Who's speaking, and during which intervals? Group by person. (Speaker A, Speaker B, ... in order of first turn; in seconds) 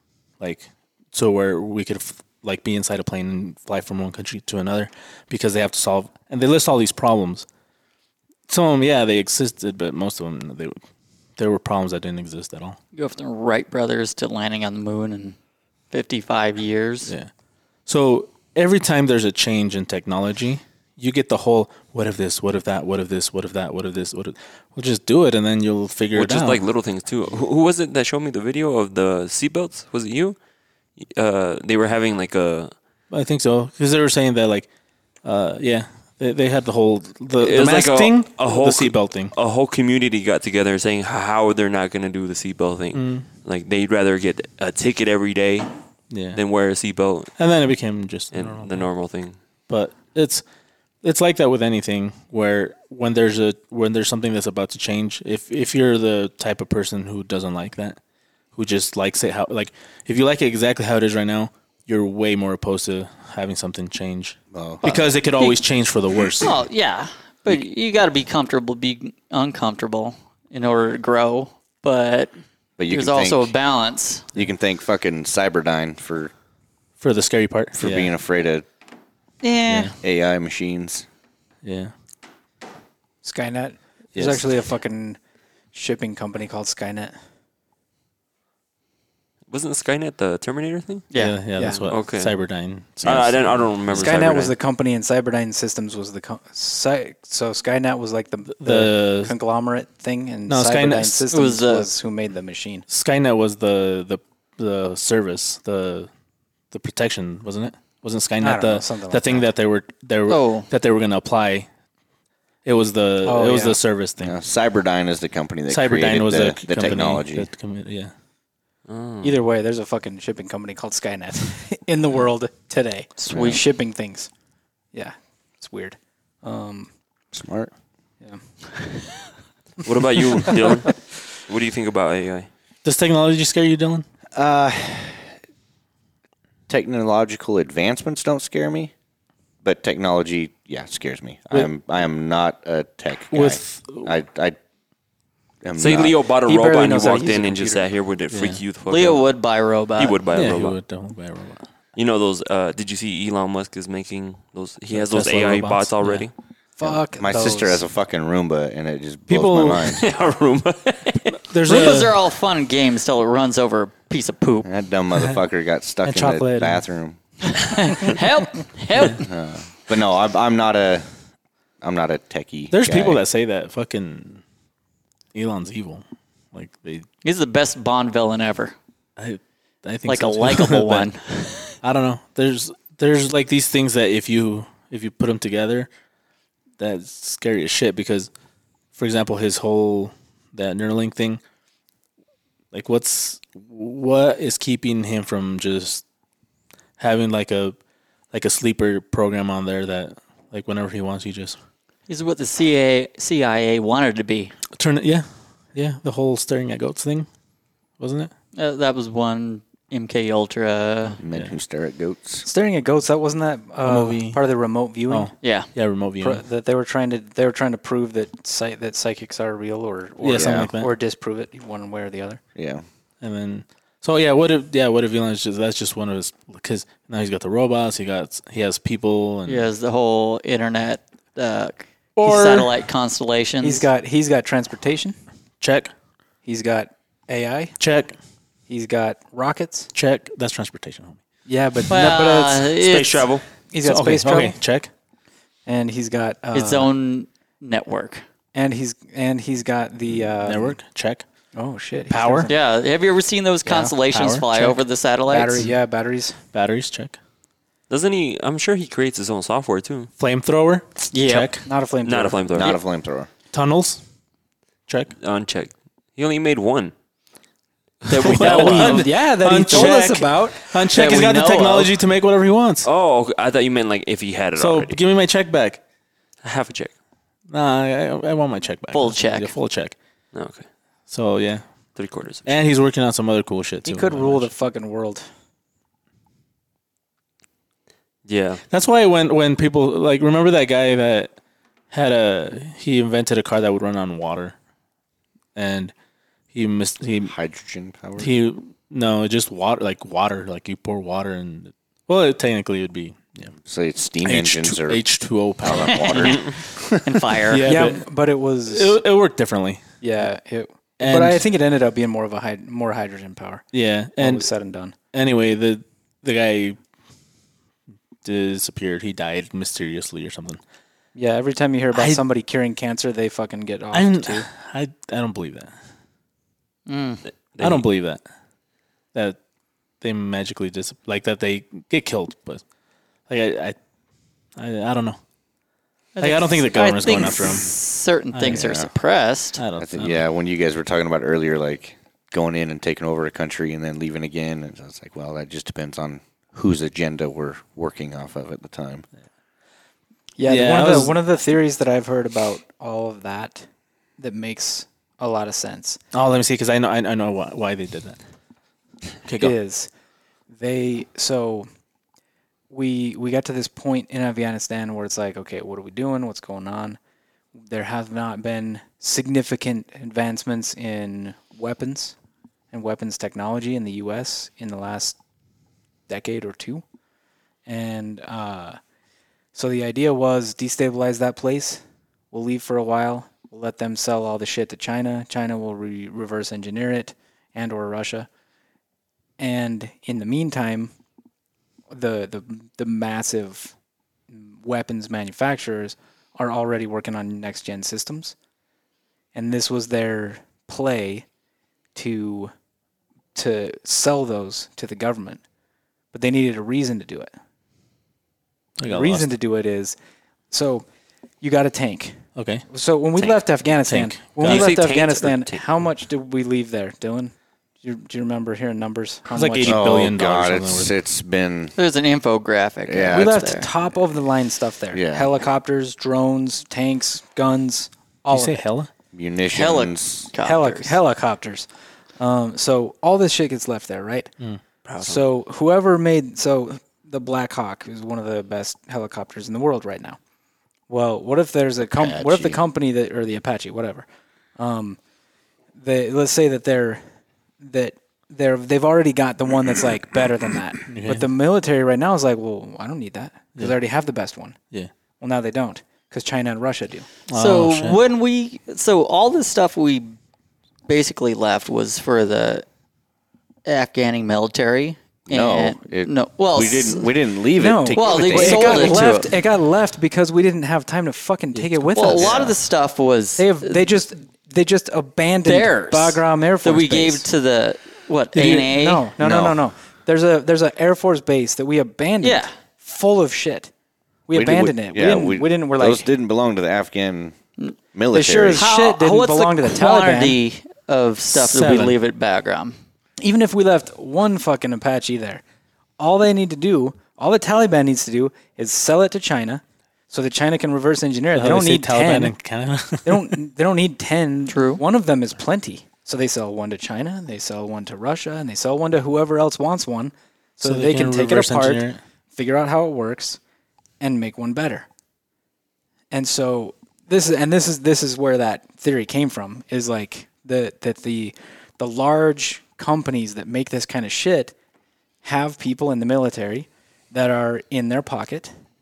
Speaker A: 0.4-7.5, 8.5-10.8, 11.4-12.8, 17.9-26.6, 33.1-34.7, 35.2-39.3, 42.9-43.3, 46.1-46.4, 47.4-48.9, 49.7-50.4, 51.0-58.0, 58.5-66.6, 77.0-78.1, 79.7-80.0, 81.6-81.9, 84.2-84.4, 91.2-94.0, 98.5-99.3, 100.5-101.3, 102.9-106.1, 106.7-111.7, 112.7-114.4, 115.7-118.1, 132.8-134.1, 143.3-144.1, 148.3-148.6, 150.3-151.7, 154.9-156.3, 159.3-159.9, 161.5-162.2, 166.1-166.8, 172.7-174.4, 175.3-177.1, 179.2-181.1, 181.8-185.9, 186.8-188.3, 188.9-191.4, 192.7-196.0, 197.0-197.8, 198.3-201.6, 204.7-207.3, 208.0-208.3, 213.8-214.4, 215.1-216.4, 220.2-220.9, 223.2-229.7, 232.2-232.7, 235.6-235.9, 237.8-238.2, 239.9-241.2, 243.8-244.9, 250.2-251.2, 252.1-252.5, 254.1-254.5, 256.5-257.2, 260.2-261.6, 263.5-264.0, 268.1-272.9, 274.6-275.8, 277.5-279.9, 281.1-281.6, 282.5-284.5, 288.7-291.3, 291.9-294.6, 295.6-295.9, 296.5-297.3, 298.2-303.6, 304.2-308.0, 308.7-309.8, 311.0-311.4, 313.7-314.5, 315.1-316.8, 318.2-320.6, 321.9-322.2, 323.9-325.7, 327.6-328.2, 330.0-332.6, 333.3-333.8, 334.6-335.2, 336.2-337.8, 338.3-338.7, 339.6-340.2, 350.5-351.2, 356.1-358.2, 359.2-359.6, 408.8-409.3, 412.4-412.6, 413.9-414.7, 419.3-420.9, 428.3-428.9, 450.9-451.3, 457.3-458.0, 478.4-478.7, 491.3-492.0, 501.3-503.4, 510.6-512.0
Speaker B: 12.9-15.4, 15.9-17.1, 64.8-65.6, 66.4-72.3, 72.9-74.3, 79.4-80.0, 91.1-91.4, 101.3-101.9, 110.3-110.7, 123.3-123.5, 148.9-150.2, 161.7-164.7, 167.4-169.3, 177.2-178.8, 180.1-181.8, 202.1-204.6, 208.6-211.2, 215.4-215.7, 229.5-233.9, 241.9-243.4, 246.5-248.2, 252.5-255.7, 261.1-261.5, 268.2-269.1, 270.9-272.0, 278.9-279.5, 305.9-307.9, 326.9-327.2, 336.2-339.6, 421.8-423.7, 429.5-431.0, 457.3-460.2, 460.9-462.7, 463.7-467.1, 467.9-469.3, 471.9-473.8, 475.4-479.1, 482.2-482.5, 488.6-492.8, 504.5-504.8
Speaker C: 26.1-30.4, 31.0-32.7, 37.4-45.7, 46.3-47.3, 48.3-49.4, 89.5-91.1, 91.9-92.3, 93.0-94.5, 118.9-119.4, 129.8-132.5, 145.8-149.2, 150.0-150.8, 152.0-156.3, 159.8-161.4, 242.7-243.4, 257.9-260.1, 262.1-262.8, 265.2-266.9, 268.1-269.0, 272.8-275.0, 276.4-276.9, 280.3-280.6, 282.0-282.5, 288.3-288.6, 327.5-327.8, 414.4-415.6, 434.9-435.2
Speaker D: 64.5-64.8, 72.8-73.5, 74.3-76.3, 77.8-78.7, 80.0-81.0, 114.2-117.5, 123.3-123.6, 127.3-127.7, 134.3-135.3, 136.7-138.9, 139.6-144.6, 145.6-146.2, 157.2-160.0, 164.7-167.2, 169.2-171.1, 171.8-173.2, 211.2-212.4, 220.3-220.7, 222.6-222.8, 262.5-263.3, 297.2-298.3, 303.6-305.0, 305.6-306.6, 338.5-338.9, 339.8-349.1, 419.6-421.8, 422.9-423.4, 424.9-425.3, 429.1-430.3, 441.8-442.6, 465.3-469.2, 472.2-472.6, 479.2-479.6, 484.3-487.4, 487.9-488.7
Speaker E: 83.2-85.2, 85.7-87.2, 91.6-91.9, 93.9-102.9, 108.4-109.5, 113.2-113.8, 119.2-124.3, 124.9-126.9, 128.2-128.9, 146.5-147.9, 156.8-157.8, 212.4-215.3, 216.2-222.4, 233.6-235.2, 236.4-237.8, 238.7-239.9, 241.5-242.5, 243.7-244.6, 245.7-246.9, 248.5-250.8, 251.5-252.5, 253.7-253.9, 254.5-256.4, 261.5-262.4, 268.4-270.7, 283.9-285.3, 307.7-309.0, 310.0-313.6, 314.2-314.9, 321.1-324.5, 350.4-353.7, 354.2-356.0, 359.4-359.9, 360.5-361.7, 362.7-367.0, 367.7-372.1, 372.7-375.2, 376.1-376.8, 377.7-378.8, 379.5-388.3, 389.4-390.9, 391.9-393.7, 394.3-398.4, 399.4-401.2, 401.9-402.5, 403.4-405.4, 406.1-407.3, 408.9-410.0, 410.5-410.9, 411.4-412.2, 412.7-419.8, 423.1-428.6, 430.4-431.7, 432.2-434.3, 435.0-440.2, 440.9-444.1, 444.6-445.0, 445.8-447.0, 447.6-454.6, 455.2-457.1, 467.6-472.4, 473.4-477.2, 478.7-483.7, 484.3-486.1, 488.1-490.4, 493.2-495.4, 496.0-502.4, 503.1-513.4, 514.0-514.9, 516.1-524.5, 525.2-528.5